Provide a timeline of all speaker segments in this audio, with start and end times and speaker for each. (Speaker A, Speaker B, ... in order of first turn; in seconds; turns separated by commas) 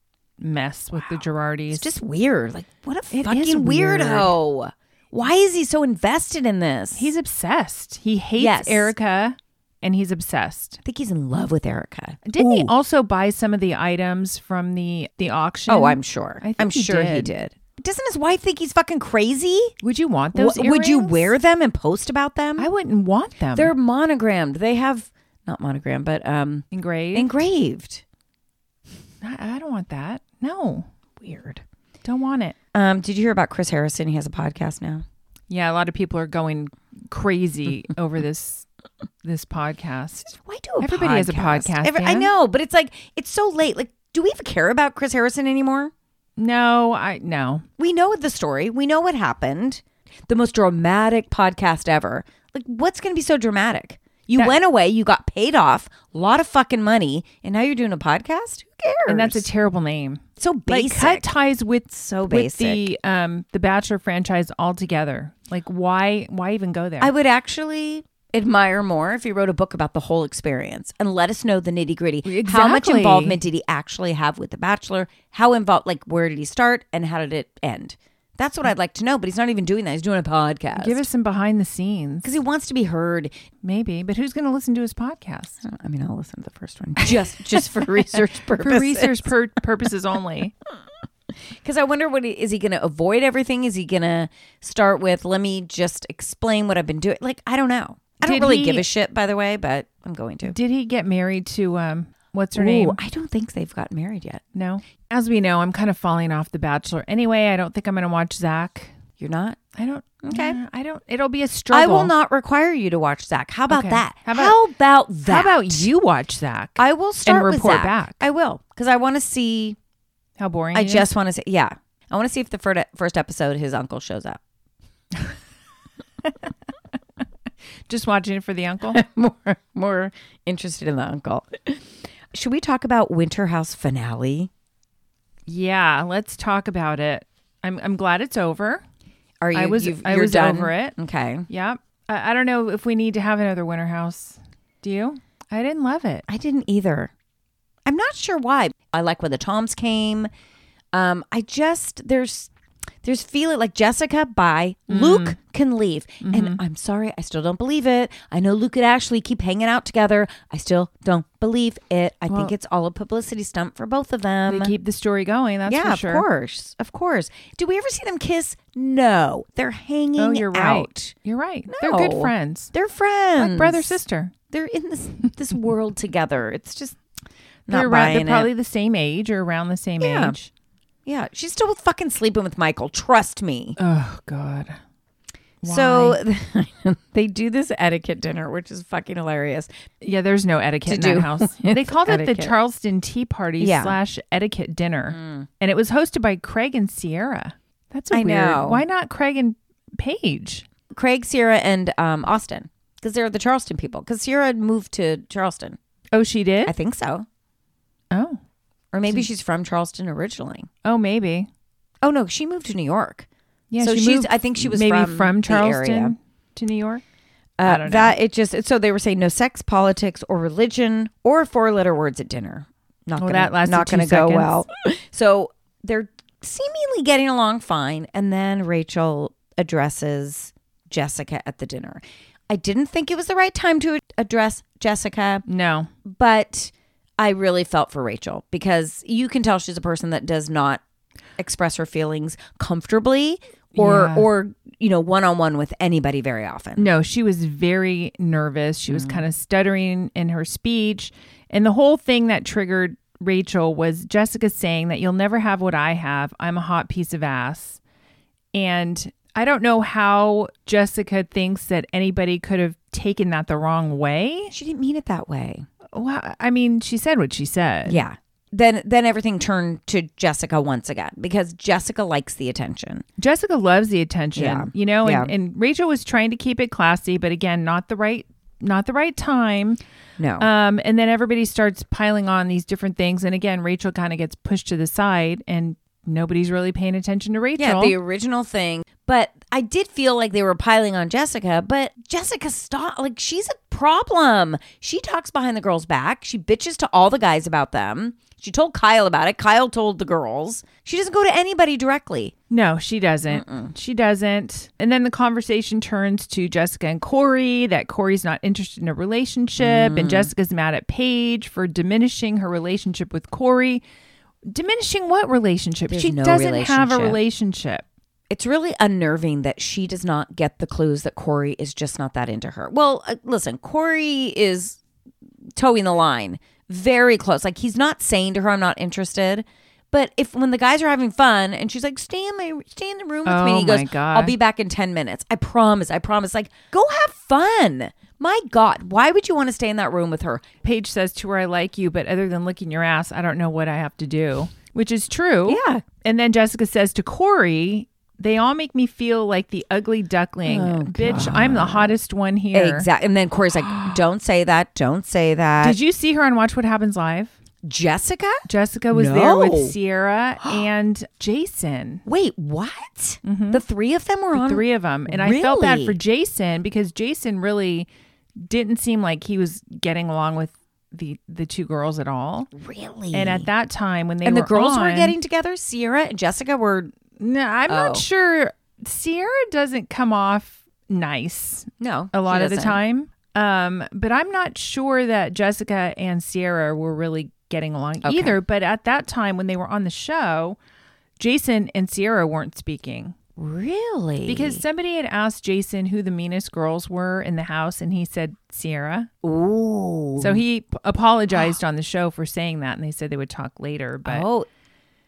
Speaker A: 0.4-1.9, Speaker B: 1.7-7.1, Speaker A: 3.1-4.3, Speaker A: 6.9-10.8, Speaker B: 8.4-8.9, Speaker B: 10.8-12.7, Speaker A: 12.2-17.3, Speaker B: 15.7-19.8, Speaker A: 19.8-21.3, Speaker B: 20.3-22.7, Speaker A: 22.6-23.7, Speaker B: 23.5-28.0, Speaker A: 26.7-27.3, Speaker A: 29.2-30.9, Speaker B: 31.2-31.6, Speaker A: 32.0-32.5, Speaker B: 32.7-35.0, Speaker A: 35.5-38.7, Speaker A: 39.2-40.3, Speaker B: 40.2-45.9, Speaker A: 40.8-42.3, Speaker A: 46.4-47.6, Speaker B: 47.8-59.5, Speaker A: 59.1-67.1, Speaker B: 60.4-61.3, Speaker B: 61.9-62.9, Speaker B: 67.0-81.0, Speaker A: 72.2-73.4, Speaker A: 80.8-82.3, Speaker B: 82.2-83.3, Speaker A: 83.6-85.6, Speaker B: 85.6-89.3, Speaker A: 88.6-90.5, Speaker B: 91.5-100.5, Speaker A: 98.2-98.8, Speaker A: 100.4-103.0, Speaker B: 102.5-104.4, Speaker A: 104.5-108.9, Speaker B: 109.2-109.6, Speaker A: 109.7-112.1, Speaker B: 110.2-110.6, Speaker B: 111.7-115.9, Speaker A: 113.7-114.6, Speaker A: 115.2-118.2, Speaker B: 116.8-119.8, Speaker A: 120.4-121.1, Speaker B: 120.7-124.4, Speaker A: 127.9-129.0, Speaker B: 128.9-134.5, Speaker A: 135.5-138.8, Speaker B: 139.4-141.5, Speaker A: 139.5-140.9, Speaker A: 141.5-146.2, Speaker B: 146.3-147.1, Speaker B: 147.8-150.3, Speaker B: 150.9-152.5, Speaker B: 153.0-164.7, Speaker A: 154.9-155.4, Speaker A: 156.2-156.6, Speaker A: 164.5-166.2, Speaker B: 165.7-171.1, Speaker A: 170.2-172.7, Speaker B: 171.7-174.0, Speaker A: 173.4-174.3, Speaker B: 174.5-177.0, Speaker B: 177.7-178.5, Speaker A: 177.7-180.5, Speaker B: 180.0-180.4, Speaker B: 181.0-183.8, Speaker A: 183.8-184.8, Speaker A: 185.6-186.2, Speaker B: 185.7-189.7, Speaker A: 190.0-200.6, Speaker B: 190.9-192.5, Speaker B: 193.6-194.0, Speaker B: 195.1-195.5, Speaker B: 198.1-198.8, Speaker B: 200.9-205.8, Speaker A: 206.1-206.7, Speaker B: 206.7-207.2, Speaker A: 208.1-208.4, Speaker B: 208.9-210.7, Speaker A: 210.8-211.5, Speaker B: 212.0-213.3, Speaker A: 213.7-217.0, Speaker B: 213.8-216.1, Speaker B: 217.6-235.4, Speaker A: 217.6-218.2, Speaker A: 223.2-224.6, Speaker A: 235.4-235.9, Speaker B: 236.0-240.8, Speaker B: 241.4-246.8, Speaker A: 243.8-244.3, Speaker A: 246.8-257.8, Speaker B: 248.9-249.2, Speaker A: 258.5-264.5, Speaker B: 264.5-265.6, Speaker A: 265.9-268.0, Speaker B: 267.9-273.0, Speaker A: 273.2-279.8, Speaker B: 274.4-275.3, Speaker B: 280.2-280.5, Speaker A: 280.4-287.9, Speaker B: 287.6-302.3, Speaker A: 302.5-313.8, Speaker B: 303.3-303.7, Speaker B: 309.6-310.3, Speaker A: 314.5-317.8, Speaker B: 315.9-317.2, Speaker B: 318.3-324.8, Speaker B: 325.5-340.4, Speaker A: 333.2-334.3, Speaker A: 340.6-352.9, Speaker B: 345.5-345.8, Speaker B: 350.4-351.9, Speaker B: 352.5-355.8, Speaker A: 355.6-357.3, Speaker B: 357.6-359.7, Speaker A: 358.4-362.0, Speaker B: 362.0-366.0, Speaker A: 363.2-363.6, Speaker A: 364.3-367.9, Speaker A: 368.4-372.5, Speaker B: 372.5-373.5, Speaker A: 373.1-375.1, Speaker B: 374.2-376.9, Speaker A: 377.2-390.6, Speaker B: 377.7-378.0, Speaker B: 381.8-382.8, Speaker B: 388.0-388.4, Speaker A: 391.2-393.1, Speaker B: 393.4-394.6, Speaker A: 394.2-399.1, Speaker B: 399.2-400.4, Speaker A: 400.2-404.2, Speaker B: 404.0-404.5